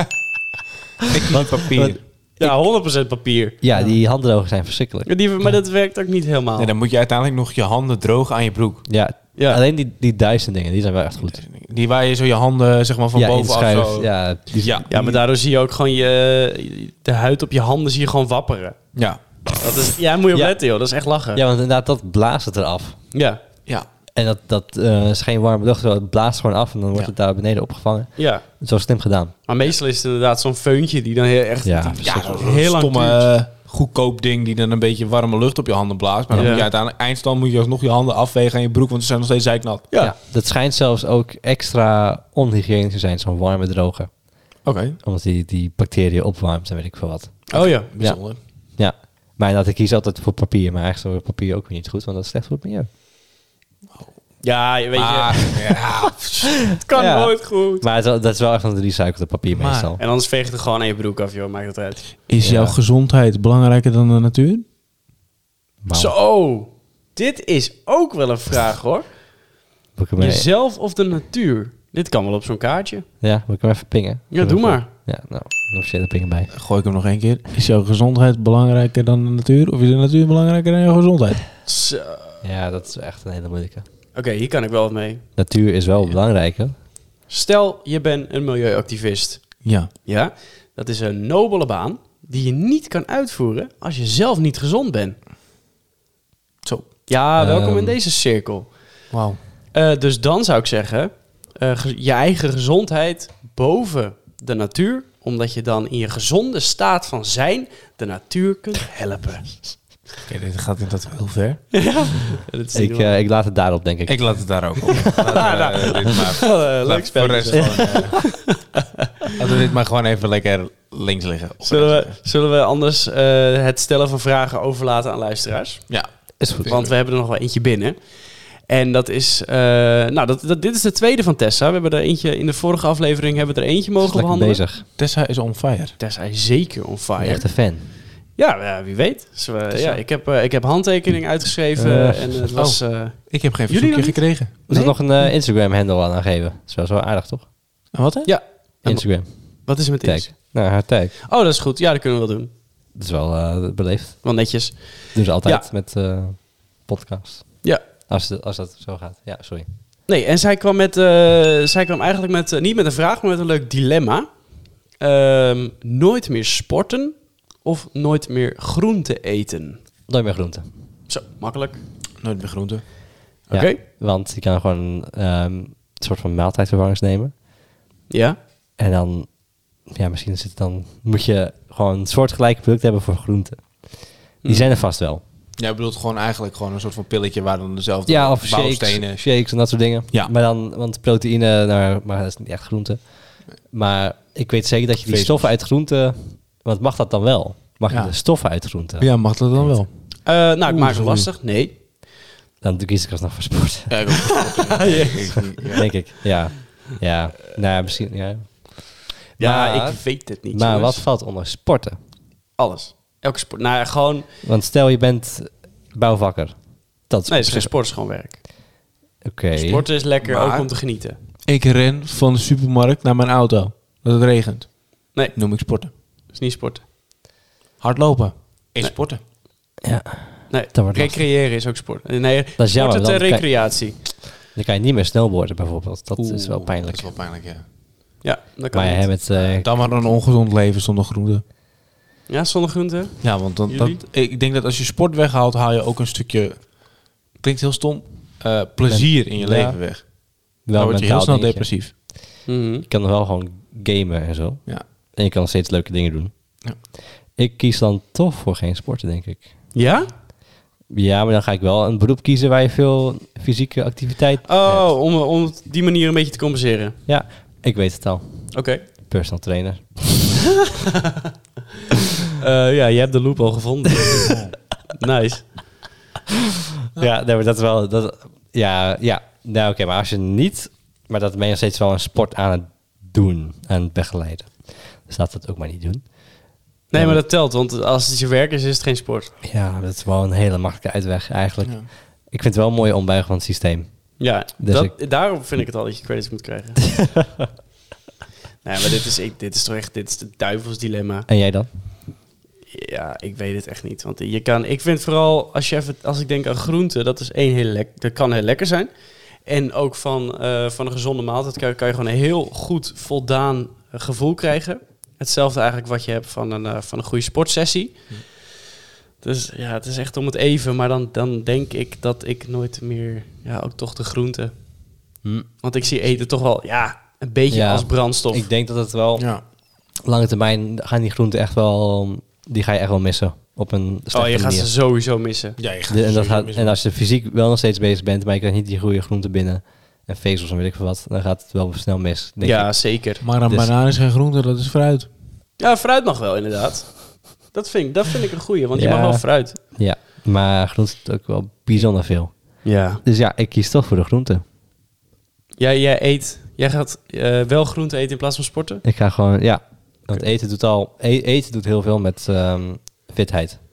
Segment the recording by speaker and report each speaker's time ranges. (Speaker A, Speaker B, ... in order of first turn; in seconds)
Speaker A: 1.1-2.0, 6.6-8.9, 11.2-15.2, 18.9-19.2, 32.0-39.9, 44.6-45.0, 47.5-48.4, 54.9-56.7, 59.5-59.9, 62.3-64.6, 76.5-81.5, 89.7-89.9, 96.6-96.9, 99.1-99.4, 110.3-111.8, 114.1-118.3, 119.4-122.2, 125.9-126.9, 135.0-135.9, 142.6-144.7, 147.9-148.3, 172.2-172.9, 185.6-189.3, 195.1-195.5, 197.9-198.4, 199.0-199.9, 200.7-201.3, 203.9-205.9, 220.2-220.7, 221.5-225.9, 227.8-229.2, 236.2-237.7, 239.3-241.4, 243.2-251.9, 291.6-291.9, 329.2-329.4, 335.6-336.8, 343.2-345.1
Speaker B: 1.3-2.6, 3.6-5.1, 8.9-11.4, 13.1-14.9, 21.3-23.0, 24.1-29.3, 31.6-32.4, 36.3-36.6, 40.0-44.1, 45.0-48.2, 48.8-52.9, 56.9-60.0, 62.4-62.8, 65.8-66.2, 70.0-70.5, 73.2-76.5, 82.4-83.8, 85.4-86.7, 97.4-98.0, 112.7-114.8, 126.4-126.7, 134.0-134.8, 137.2-137.9, 141.8-142.5, 144.7-147.5, 148.8-151.1, 152.9-154.2, 155.1-159.7, 170.1-170.7, 173.5-177.3, 178.8-185.2, 188.1-199.8, 202.6-204.2, 205.7-212.0, 214.4-217.7, 219.2-219.8, 229.8-231.2, 232.6-237.1, 238.7-239.7, 248.9-249.8, 250.6-256.3, 257.4-259.5, 260.9-264.9, 267.1-270.4, 276.9-287.2, 289.4-294.9, 297.0-297.2, 301.3-301.7, 327.5-329.3, 329.9-334.7, 335.9-343.7, 348.8-354.4, 358.8-363.6
Speaker C: 2.4-3.6, 5.1-6.7, 9.4-9.6, 14.9-18.8, 19.6-21.4, 23.1-23.4, 28.2-28.4, 29.5-33.3, 36.4-36.7, 47.5-47.9, 54.4-55.8, 56.7-57.9, 60.0-62.1, 65.9-69.1, 70.2-73.1, 74.3-74.9, 81.7-82.4, 84.2-85.2, 87.3-95.2, 97.1-98.7, 99.7-109.8, 111.7-113.2, 115.1-119.1, 121.7-125.9, 126.7-128.0, 128.6-134.6, 136.0-144.9, 148.2-150.6, 151.2-152.5, 154.2-155.7, 160.1-164.4, 165.0-169.8, 171.1-171.8, 173.5-173.8, 178.1-178.4, 184.4-184.7, 200.2-201.8, 204.4-205.8, 209.4-211.0, 212.6-214.3, 217.3-218.4, 219.6-221.2, 226.3-226.8, 230.5-234.0, 238.2-239.1, 242.3-244.0, 252.5-252.9, 259.7-260.1, 264.5-267.0, 268.5-268.8, 272.4-275.6, 286.9-289.3, 294.2-297.0, 298.6-301.3, 302.7-308.9, 309.4-318.1, 319.2-324.5, 325.6-328.5, 334.1-335.6, 342.4-343.2, 345.6-349.6, 352.6-353.0, 355.6-358.8